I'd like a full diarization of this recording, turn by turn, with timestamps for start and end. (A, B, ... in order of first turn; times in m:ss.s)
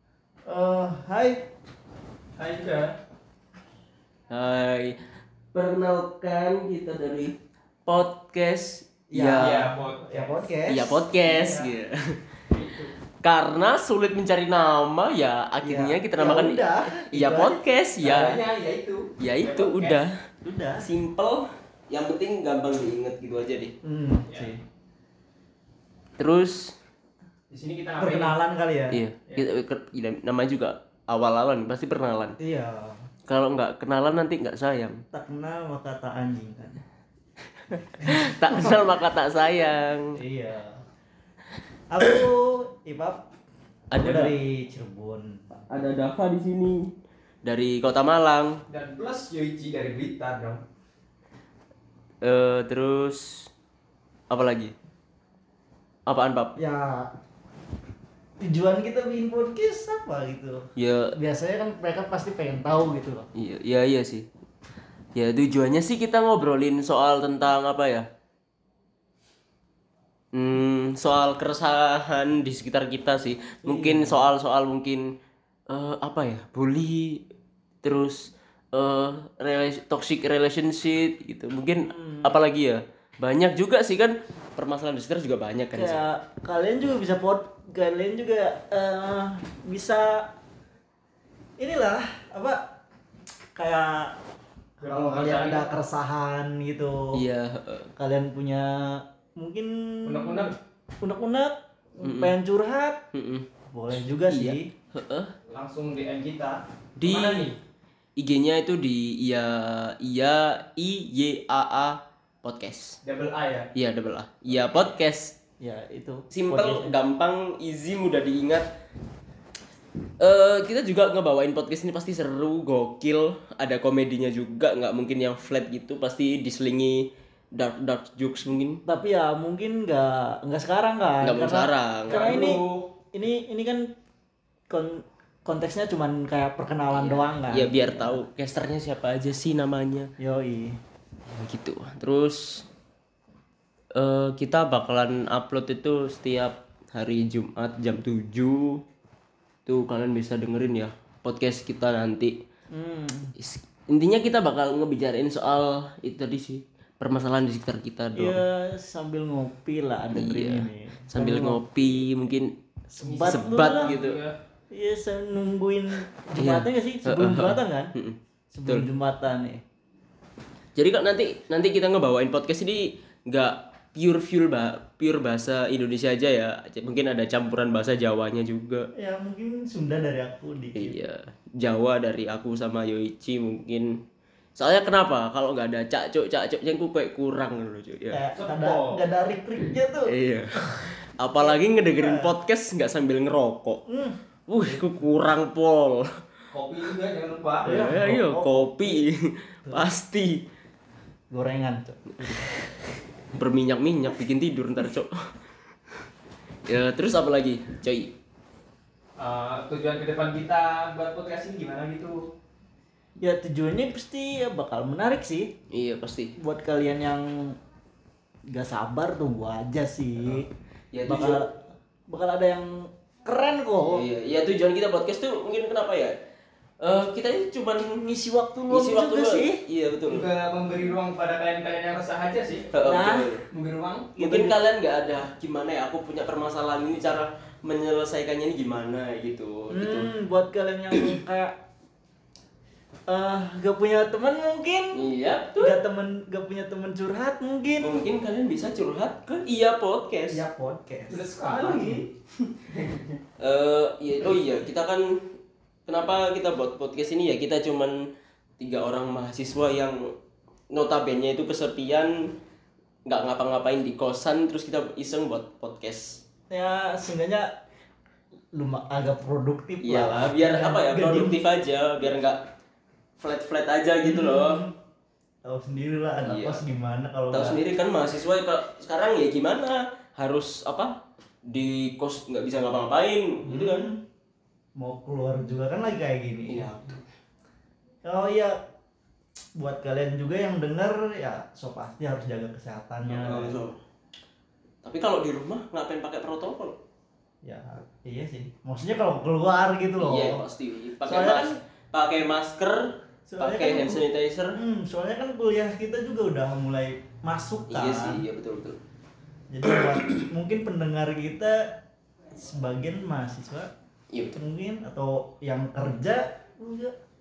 0:00.5-0:01.5 A
0:02.4-0:02.9 B
0:04.3-0:05.0 C
0:05.5-0:09.7 C
0:09.1-0:11.7 A
0:09.4-0:10.3 B
0:10.7-0:12.2 C
0:12.5-0:12.9 B
0:13.2-0:18.4 C
0:15.6-0:17.6 A
0:18.0-0:20.0 B
0:19.2-0:20.2 C
0:20.4-0:20.8 A
0:20.8-0:23.7 C
0:23.8-0:24.6 A
0:26.2-0:26.7 C
0:27.5-0:28.4 B
0:28.0-0:29.0 A
0:28.9-0:32.4 C
0:32.4-0:33.0 A
0:33.3-0:35.0 C
0:35.1-0:36.8 A
0:38.0-0:40.2 C
0:38.0-0:38.9 A
0:40.2-0:40.8 A
0:41.9-0:43.2 A
0:43.9-0:44.4 C
0:43.9-0:45.6 A
0:45.7-0:46.9 C
0:47.4-0:48.6 C
0:48.7-0:50.6 B
0:52.2-0:53.5 C
0:54.3-0:54.7 C
0:56.1-0:56.6 C
0:56.6-0:57.1 A
0:58.4-1:03.3 A
1:00.8-1:01.1 C
1:03.4-1:04.3 C
1:05.2-1:08.1 C
1:10.3-1:15.0 C
1:13.7-1:14.3 A
1:15.7-1:17.2 C
1:17.8-1:26.0 C
1:21.9-1:22.4 A
1:25.7-1:30.3 A
1:31.6-1:32.6 A
1:33.6-1:34.1 A
1:34.8-1:37.2 A
1:34.8-1:35.6 B
1:37.1-1:37.9 C
1:38.0-1:43.0 A
1:40.0-1:40.6 B
1:42.0-1:42.4 C
1:43.1-1:43.5 C
1:43.7-1:44.7 A
1:44.3-1:45.4 C
1:45.5-1:47.5 B
1:47.0-1:47.6 C
1:48.2-1:53.0 C
1:53.0-1:53.7 B
1:53.8-1:55.4 C
1:54.5-1:54.8 A
1:55.6-1:56.9 A
1:56.3-1:58.6 C
2:00.2-2:08.8 C
2:08.9-2:13.9 A
2:11.2-2:12.6 C
2:12.1-2:12.9 B
2:14.7-2:18.2 A
2:17.0-2:20.1 C
2:20.2-2:20.8 A
2:21.3-2:22.6 C
2:24.0-2:28.8 C
2:29.7-2:32.4 C
2:32.7-2:33.4 A
2:33.4-2:38.4 C
2:38.2-2:41.6 A
2:40.1-2:42.5 C
2:42.9-2:43.9 A
2:43.0-2:44.4 B
2:43.2-2:44.2 C
2:44.7-2:47.9 A
2:46.4-2:48.9 C
2:48.5-2:49.6 A
2:50.8-2:58.9 C
2:59.0-3:01.0 A
3:00.8-3:04.0 C
3:04.6-3:08.2 C
3:08.1-3:10.1 A
3:08.4-3:09.0 B
3:10.1-3:13.8 C
3:11.4-3:12.3 A
3:13.9-3:14.8 A
3:14.5-3:16.1 C
3:16.5-3:17.8 B
3:17.6-3:19.1 A
3:17.7-3:20.4 C
3:21.3-3:22.4 A
3:22.2-3:22.5 C
3:23.3-3:25.1 C
3:26.7-3:28.1 C
3:29.2-3:32.3 B
3:33.2-3:35.5 A
3:35.7-3:36.3 C
3:36.4-3:37.6 A
3:38.5-3:40.5 A
3:40.9-3:41.4 C
3:41.1-3:44.0 A
3:43.9-3:46.1 C
3:46.8-3:48.0 C
3:48.0-3:49.6 A
3:48.7-3:50.3 C
3:50.1-3:52.7 B
3:52.7-3:53.4 C
3:52.8-3:53.3 A
3:53.5-3:54.1 B
3:54.2-3:54.6 A
3:54.2-4:00.1 C
3:59.7-4:01.6 A
4:03.1-4:07.9 A
4:04.9-4:05.8 C
4:07.8-4:10.4 C
4:10.3-4:12.1 A
4:11.1-4:12.0 B
4:12.7-4:13.2 B
4:13.4-4:15.2 C
4:15.9-4:18.0 C
4:18.6-4:20.1 C
4:20.7-4:22.3 C
4:23.1-4:26.2 C
4:26.5-4:27.5 A
4:28.5-4:31.4 A
4:29.8-4:32.4 C
4:33.2-4:34.6 C
4:34.0-4:34.8 A
4:35.4-4:37.6 A
4:36.2-4:36.6 C
4:37.3-4:41.0 C
4:41.5-4:43.9 C
4:43.5-4:44.0 A
4:44.8-4:46.7 A
4:46.5-4:47.0 C
4:48.0-4:48.6 A
4:49.6-4:53.6 A
4:53.1-4:53.8 C
4:54.8-4:56.8 C
4:57.4-5:00.4 A
5:00.0-5:04.6 C
5:01.0-5:01.6 A
5:03.3-5:08.2 A
5:07.7-5:08.8 C
5:09.5-5:11.8 A
5:09.7-5:10.2 C
5:12.3-5:13.7 A
5:14.3-5:17.0 A